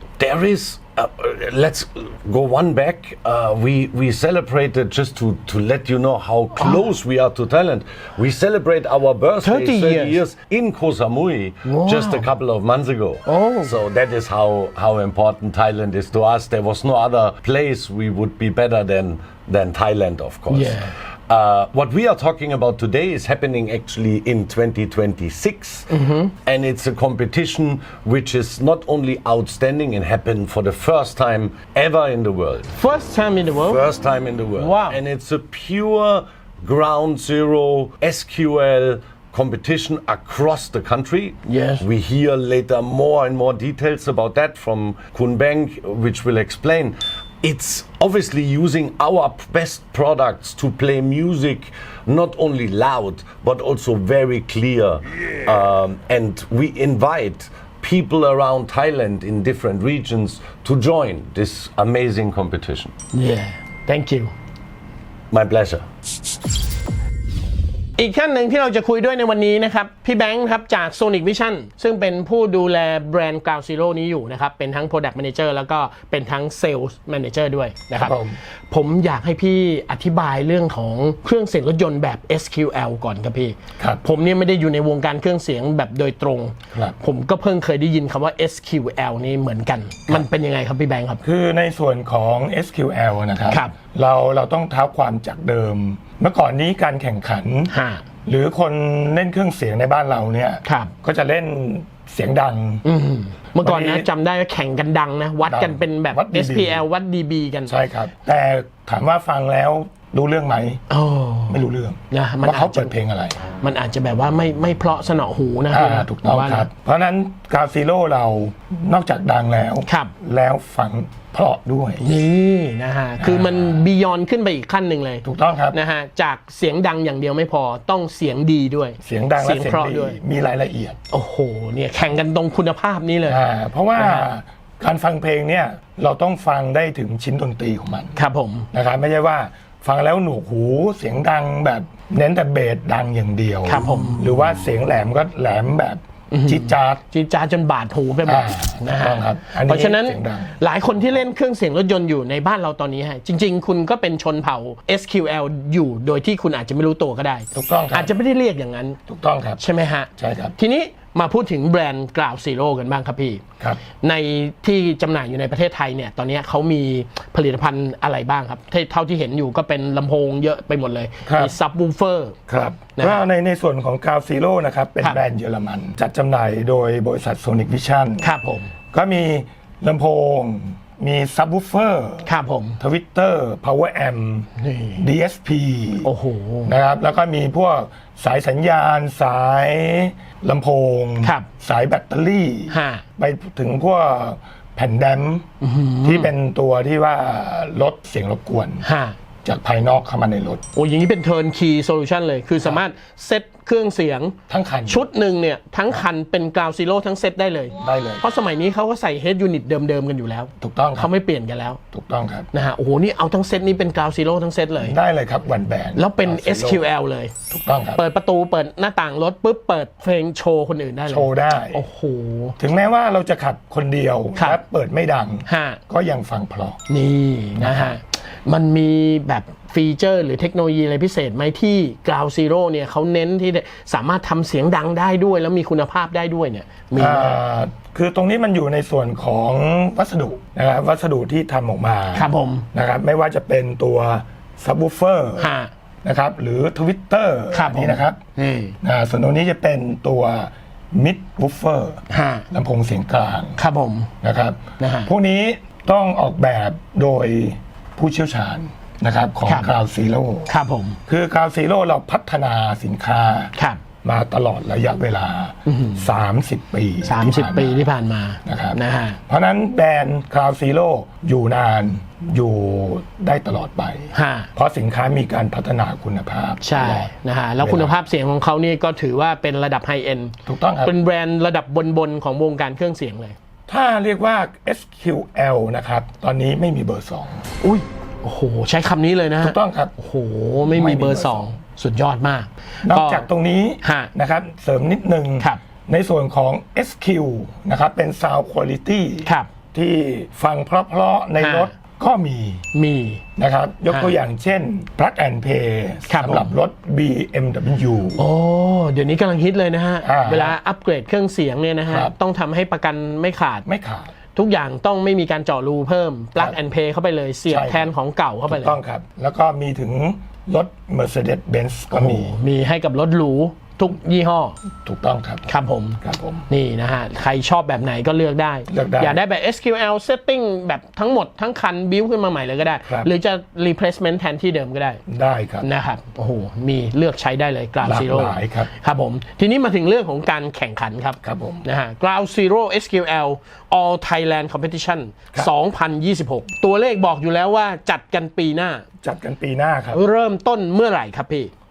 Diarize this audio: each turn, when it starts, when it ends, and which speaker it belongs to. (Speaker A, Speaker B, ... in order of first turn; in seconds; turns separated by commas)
Speaker A: 0.2-25.9, Speaker B: 9.4-10.2, Speaker B: 11.7-12.2, Speaker B: 13.2-13.7, Speaker B: 20.5-20.9, Speaker B: 25.9-26.3, Speaker A: 26.4-32.7, Speaker B: 32.8-33.8, Speaker A: 33.6-62.9, Speaker B: 34.6-35.0, Speaker B: 41.5-41.8, Speaker B: 63.1-64.3, Speaker A: 65.3-65.8, Speaker B: 68.0-78.2, Speaker C: 78.0-78.4, Speaker B: 78.7-91.2, Speaker C: 86.7-87.0, Speaker C: 91.2-97.7, Speaker B: 93.5-93.7, Speaker B: 97.7-98.0, Speaker C: 98.2-102.8, Speaker B: 100.7-100.9, Speaker B: 102.8-107.7, Speaker C: 103.6-104.1, Speaker C: 105.5-106.8, Speaker C: 107.7-110.8, Speaker B: 110.9-111.6, Speaker C: 111.5-113.4, Speaker B: 112.1-112.9, Speaker B: 113.6-116.7, Speaker C: 115.7-122.0, Speaker B: 119.9-120.1, Speaker B: 122.0-130.2, Speaker C: 123.2-123.9, Speaker C: 125.2-125.8, Speaker C: 129.0-131.0, Speaker B: 131.1-133.4, Speaker C: 133.2-138.2, Speaker B: 133.9-134.3, Speaker B: 138.2-138.7, Speaker C: 138.7-147.0, Speaker B: 143.7-144.2, Speaker B: 146.3-159.0, Speaker C: 148.2-150.6, Speaker C: 157.5-158.1, Speaker C: 159.1-159.6, Speaker B: 159.6-172.4, Speaker C: 160.2-160.6, Speaker C: 171.2-171.5, Speaker C: 172.5-178.3, Speaker B: 178.2-178.7, Speaker C: 178.9-182.3, Speaker B: 182.2-182.8, Speaker C: 182.8-186.1, Speaker B: 184.6-185.1, Speaker B: 186.0-186.7, Speaker C: 186.7-195.5, Speaker B: 191.2-191.5, Speaker B: 192.7-193.0, Speaker B: 195.6-196.3, Speaker C: 196.0-198.8, Speaker B: 198.8-199.2, Speaker C: 199.4-200.6, Speaker B: 200.7-204.4, Speaker C: 204.5-205.1, Speaker B: 204.9-211.8, Speaker C: 207.8-208.2, Speaker C: 210.6-211.1, Speaker C: 211.9-212.5, Speaker B: 212.5-214.9, Speaker C: 214.8-216.8, Speaker B: 215.9-217.3, Speaker C: 217.5-218.0, Speaker B: 217.9-222.6, Speaker C: 221.1-221.8, Speaker C: 222.6-226.8, Speaker B: 225.5-225.8, Speaker B: 226.9-237.4, Speaker C: 227.6-227.9, Speaker C: 236.9-245.5, Speaker B: 242.1-242.7, Speaker B: 245.4-245.7, Speaker C: 246.0-248.2, Speaker B: 247.5-248.8, Speaker C: 248.8-253.6, Speaker B: 252.1-252.4, Speaker B: 253.6-254.1, Speaker C: 254.2-260.5, Speaker B: 254.8-255.1, Speaker B: 259.5-259.7, Speaker B: 260.5-261.0, Speaker C: 261.1-267.9, Speaker B: 263.6-263.8, Speaker B: 265.6-266.0, Speaker B: 267.0-269.2, Speaker C: 268.4-277.9, Speaker B: 274.1-274.5, Speaker B: 276.6-283.4, Speaker C: 280.4-280.9, Speaker C: 283.7-287.4, Speaker B: 287.6-293.3, Speaker C: 289.4-289.9, Speaker C: 290.6-291.6, Speaker C: 292.8-302.6, Speaker B: 293.8-294.1, Speaker B: 299.2-299.5, Speaker B: 301.4-301.7, Speaker B: 302.7-303.2, Speaker C: 303.4-308.2, Speaker B: 303.9-304.1, Speaker B: 306.1-306.5, Speaker B: 308.2-313.6, Speaker C: 310.0-310.6, Speaker C: 311.9-312.1, Speaker C: 313.6-314.1, Speaker B: 314.3-318.8, Speaker C: 317.5-317.9, Speaker C: 318.5-322.4, Speaker B: 321.9-324.6, Speaker C: 324.8-325.5, Speaker B: 325.5-335.0, Speaker C: 326.0-326.5, Speaker C: 328.7-329.2, Speaker C: 332.8-333.1, Speaker C: 335.1-335.7, Speaker B: 335.6-348.9, Speaker C: 337.8-338.7, Speaker C: 341.2-341.6, Speaker C: 349.0-350.0, Speaker B: 349.9-351.5